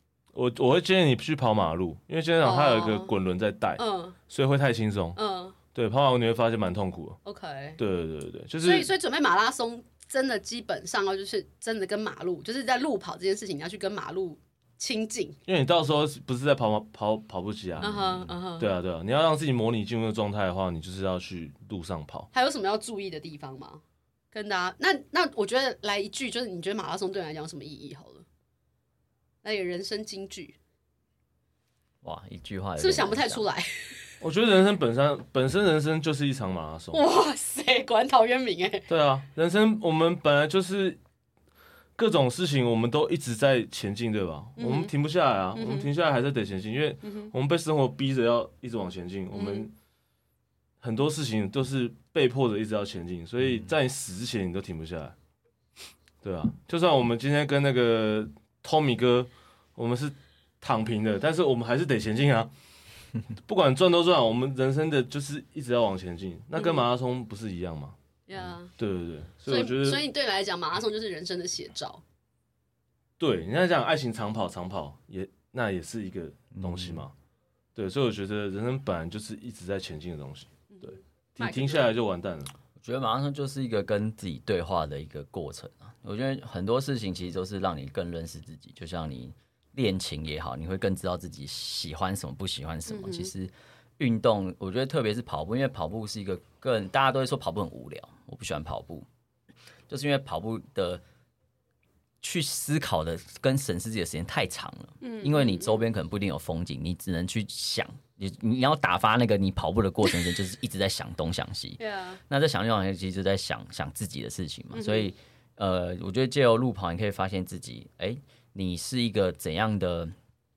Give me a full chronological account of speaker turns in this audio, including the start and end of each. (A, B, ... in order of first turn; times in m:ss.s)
0:00.3-0:05.2 A
0:02.4-0:03.1 B
0:03.8-0:04.2 B
0:05.2-0:05.6 B
0:05.7-0:07.2 A
0:07.2-0:07.8 B
0:07.8-0:08.9 A
0:08.6-0:15.4 B
0:15.5-0:18.0 A
0:17.8-0:18.2 C
0:17.8-0:18.7 B
0:18.6-0:22.3 A
0:22.3-0:23.8 B
0:24.3-0:28.2 B
0:29.4-0:30.6 B
0:32.0-0:33.4 C
0:32.8-0:33.7 B
0:34.2-0:37.0 A
0:36.9-0:38.9 B
0:38.9-0:41.0 A
0:42.0-0:49.7 A
0:44.6-0:44.9 B
0:45.5-0:45.9 B
0:47.0-0:47.3 B
0:49.3-0:49.7 B
0:50.8-0:55.1 A
0:56.2-1:02.5 A
1:03.5-1:08.0 A
1:08.3-1:08.7 B
1:08.8-1:10.0 A
1:09.5-1:12.0 B
1:13.2-1:17.1 A
1:16.5-1:17.0 C
1:17.7-1:22.5 A
1:20.7-1:21.9 B
1:22.8-1:39.0 C
1:32.9-1:33.3 B
1:39.9-1:41.0 C
1:42.2-2:00.1 C
1:45.0-1:45.8 B
1:51.8-1:52.2 B
1:54.7-1:55.1 B